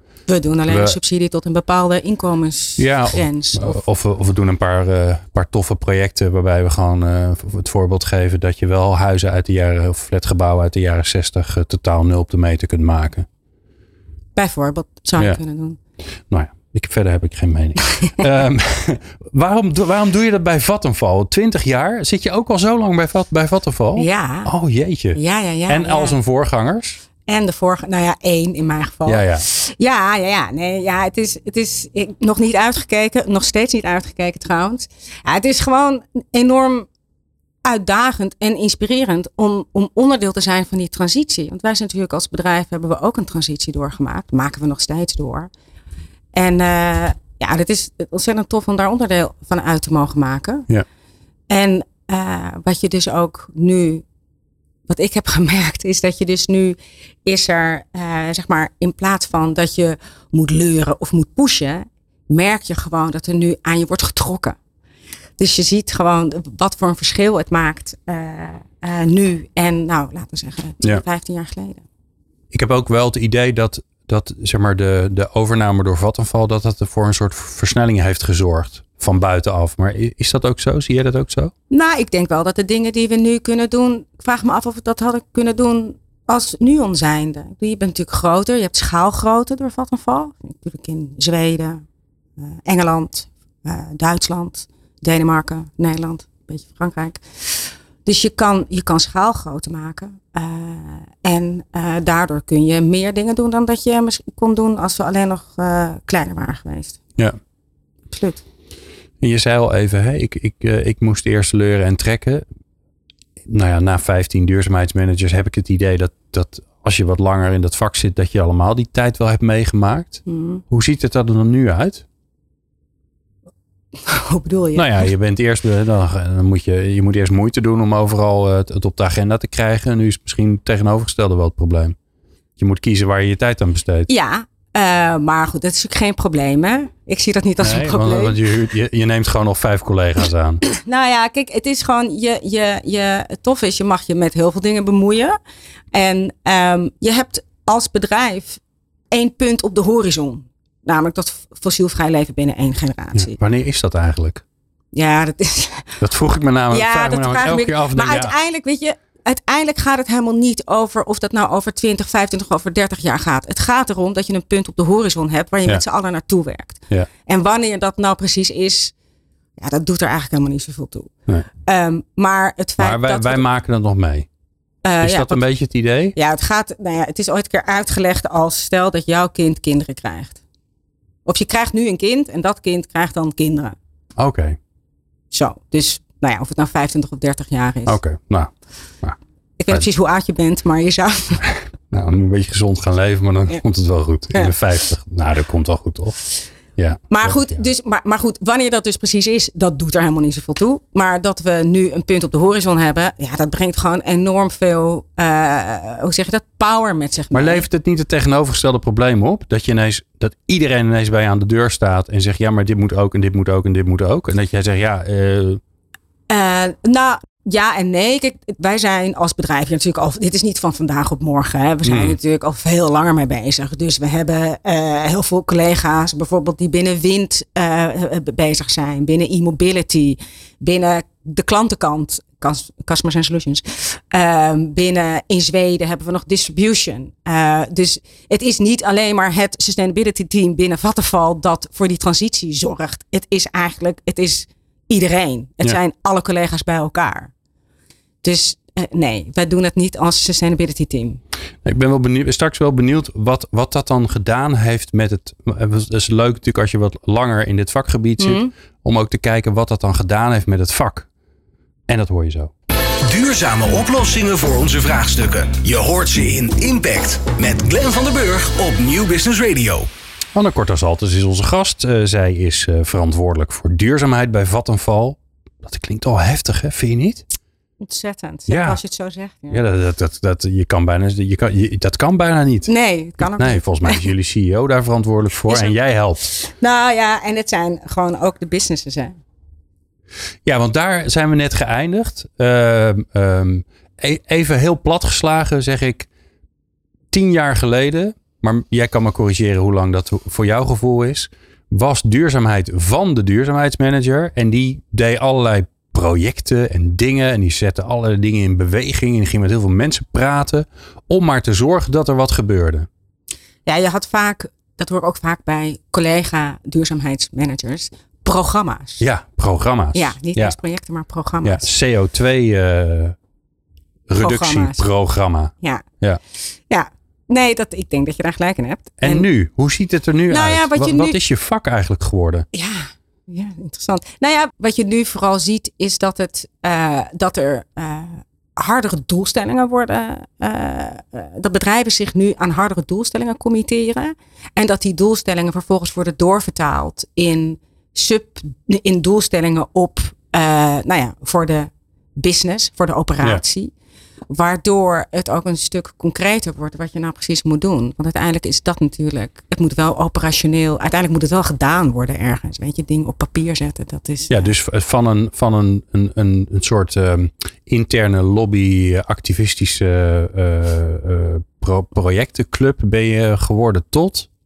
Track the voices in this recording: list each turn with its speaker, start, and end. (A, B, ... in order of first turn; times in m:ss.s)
0:00.3-0:03.8 A
0:00.7-0:01.0 B
0:02.8-0:13.3 B
0:14.4-0:15.8 A
0:16.3-0:27.0 B
0:24.0-0:24.5 A
0:25.1-0:26.2 A
0:27.3-0:36.9 A
0:29.0-0:29.4 B
0:37.6-0:45.5 A
0:46.3-0:50.7 A
0:51.5-0:54.0 A
0:54.9-1:04.6 A
1:05.4-1:11.8 A
1:12.5-1:21.5 B
1:21.7-1:31.8 A
1:32.4-1:47.0 A
1:48.1-1:48.4 A
1:49.2-1:52.4 B
1:53.5-2:02.0 B
2:00.2-2:00.6 A
2:04.0-2:05.1 A
2:04.7-2:12.0 B
2:12.6-2:14.1 B
2:14.1-2:18.4 A
2:17.6-2:20.6 B
2:20.7-2:25.4 A
2:25.9-2:28.6 A
2:29.1-2:33.4 A
2:33.1-2:34.4 B
2:34.9-2:36.0 A
2:36.0-2:38.3 B
2:36.7-2:48.9 A
2:49.6-2:51.1 A
2:51.6-2:53.4 A
2:52.8-2:54.3 B
2:54.8-2:55.4 A
2:55.0-2:56.1 B
2:56.1-3:00.4 A
3:01.2-3:03.8 A
3:04.2-3:04.6 B
3:05.3-3:08.0 A
3:07.8-3:08.5 B
3:09.6-3:11.4 A
3:11.9-3:16.2 B
3:16.8-3:17.6 B
3:17.1-3:27.6 A
3:27.3-3:35.6 B
3:36.3-4:07.3 A
3:41.8-3:42.2 B
4:08.2-4:11.2 A
4:11.6-4:21.1 B
4:18.2-4:18.5 A
4:21.9-4:22.5 B
4:23.0-4:29.9 C
4:30.3-4:37.2 B
4:37.8-4:39.6 A
4:38.5-4:38.8 B
4:39.5-4:46.2 B
4:42.7-4:44.1 A
4:45.5-4:49.2 A
4:50.4-4:56.1 B
4:57.1-5:12.9 B
5:13.6-5:19.0 A
5:19.0-5:20.6 B
5:19.9-5:21.7 A
5:21.4-5:23.2 B
5:24.1-5:26.2 B
5:24.2-5:24.9 A
5:26.5-5:29.3 A
5:29.0-5:32.4 B
5:30.3-5:31.2 A
5:32.5-5:53.7 A
5:54.3-6:04.5 A
6:04.3-6:14.3 B